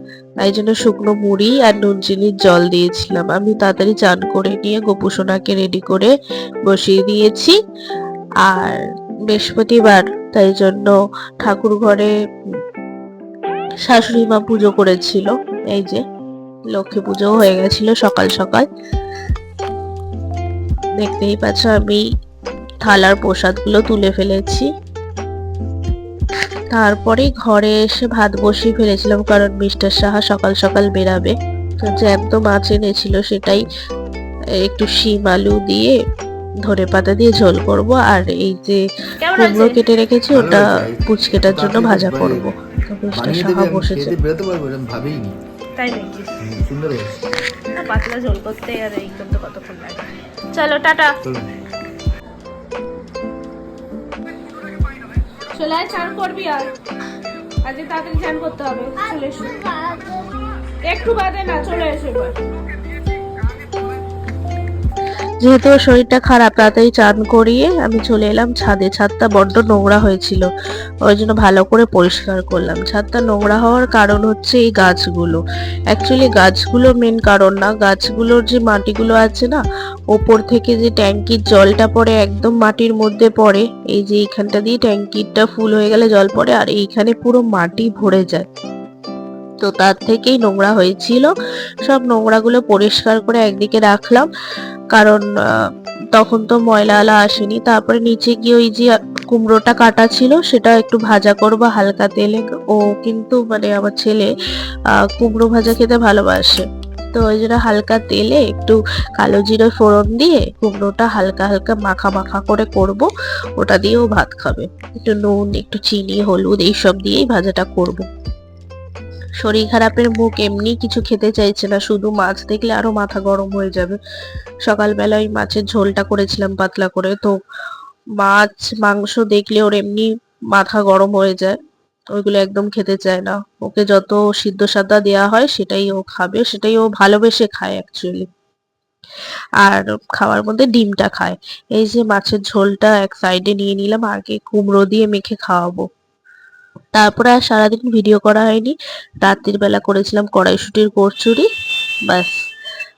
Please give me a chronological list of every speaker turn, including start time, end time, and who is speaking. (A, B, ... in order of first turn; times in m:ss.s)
0:00.4-0:06.1 A
0:06.7-0:07.5 A
0:08.4-0:08.8 A
0:09.3-0:12.1 A
0:13.8-0:16.0 A
0:16.7-0:18.7 A
0:21.0-0:22.0 A
0:22.8-0:24.7 A
0:26.7-0:33.6 A
0:34.6-0:35.9 A
0:36.6-0:38.8 A
0:39.2-0:39.8 B
0:39.3-0:44.1 A
0:40.3-0:42.5 C
0:43.1-0:45.3 C
0:45.8-0:46.4 B
0:46.4-0:47.2 C
0:47.7-0:51.1 B
0:55.5-0:56.7 B
0:57.6-0:59.9 B
1:00.8-1:02.4 B
1:05.4-1:10.4 A
1:11.0-1:19.6 A
1:20.1-1:28.5 A
1:29.6-1:31.3 A
1:31.8-1:34.3 A
1:34.9-1:35.2 A
1:36.1-1:44.3 A
1:45.0-1:53.1 A
1:53.6-1:58.0 A
1:59.4-2:04.0 A
2:04.6-2:07.3 A
2:08.2-2:11.6 A
2:12.1-2:18.2 A
2:19.6-2:25.8 A
2:26.9-2:31.5 A